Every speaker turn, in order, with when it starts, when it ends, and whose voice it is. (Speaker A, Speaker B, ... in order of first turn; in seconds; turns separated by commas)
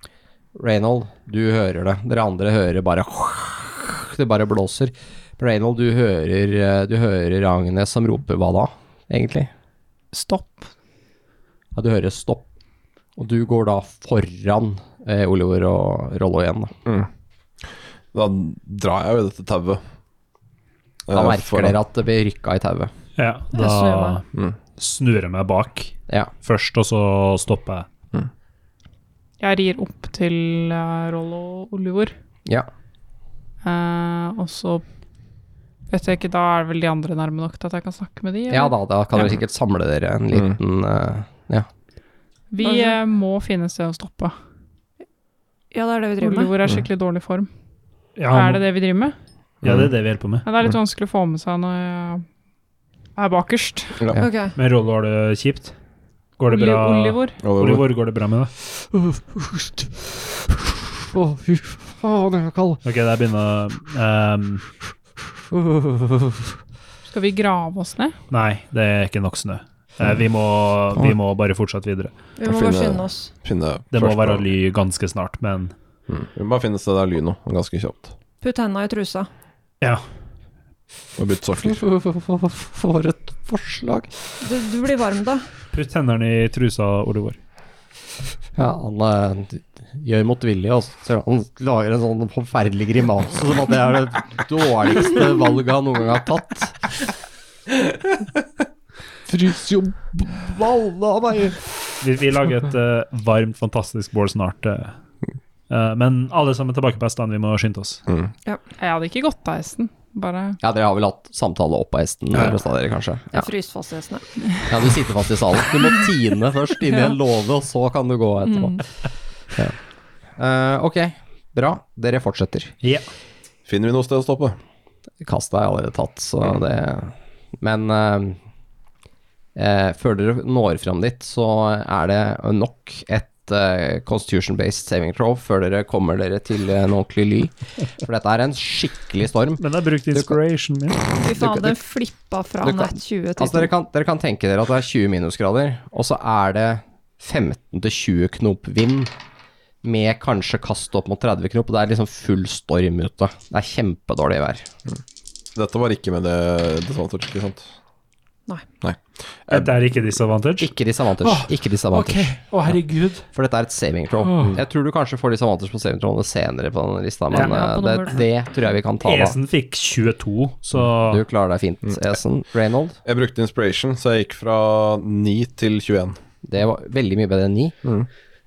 Speaker A: 0.6-9.5, Speaker B: 10.1-10.7, Speaker A: 11.8-12.5, Speaker A: 13.2-16.8, Speaker C: 18.1-19.8, Speaker C: 21.1-21.8, Speaker A: 21.1-22.9, Speaker D: 23.1-24.2, Speaker E: 23.5-24.2, Speaker D: 24.8-27.9, Speaker B: 29.4-32.1, Speaker B: 33.6-34.8, Speaker B: 35.9-38.8, Speaker A: 38.5-41.7, Speaker B: 42.5-44.3, Speaker E: 42.6-43.0, Speaker E: 45.7-46.5, Speaker B: 46.2-47.5, Speaker D: 48.2-48.6, Speaker B: 48.3-49.1, Speaker C: 49.6-49.9, Speaker D: 49.6-50.5, Speaker B: 50.4-52.2, Speaker B: 53.1-54.0, Speaker E: 54.1-54.6, Speaker D: 54.6-55.7, Speaker D: 56.4-58.5, Speaker B: 56.5-57.4, Speaker C: 57.4-57.9, Speaker A: 58.9-62.8, Speaker D: 62.8-64.7, Speaker A: 65.5-66.6, Speaker B: 67.1-68.2, Speaker D: 68.3-72.1, Speaker E: 72.4-73.3, Speaker C: 72.5-74.5, Speaker D: 73.9-75.7, Speaker C: 76.1-78.1, Speaker E: 78.4-79.3, Speaker C: 81.2-81.8, Speaker A: 81.6-84.1, Speaker E: 84.4-85.5, Speaker D: 85.7-87.4, Speaker A: 88.5-96.8, Speaker A: 99.3-101.6, Speaker D: 102.0-105.0, Speaker D: 105.7-108.0, Speaker B: 108.8-110.6, Speaker A: 110.6-113.5, Speaker E: 113.3-114.3, Speaker A: 114.7-118.9, Speaker A: 120.4-122.7, Speaker C: 123.7-124.6, Speaker A: 125.2-128.4, Speaker A: 129.6-140.4, Speaker D: 139.6-141.0, Speaker E: 141.2-143.7, Speaker A: 141.2-141.8, Speaker A: 142.6-149.1, Speaker A: 149.8-154.7, Speaker C: 155.6-157.7, Speaker C: 158.8-159.7, Speaker D: 159.5-163.3, Speaker A: 160.6-162.3, Speaker A: 163.3-169.4, Speaker D: 164.2-164.6, Speaker E: 167.3-168.2, Speaker D: 169.0-171.2, Speaker A: 171.1-173.0, Speaker C: 173.1-176.2, Speaker A: 176.4-177.8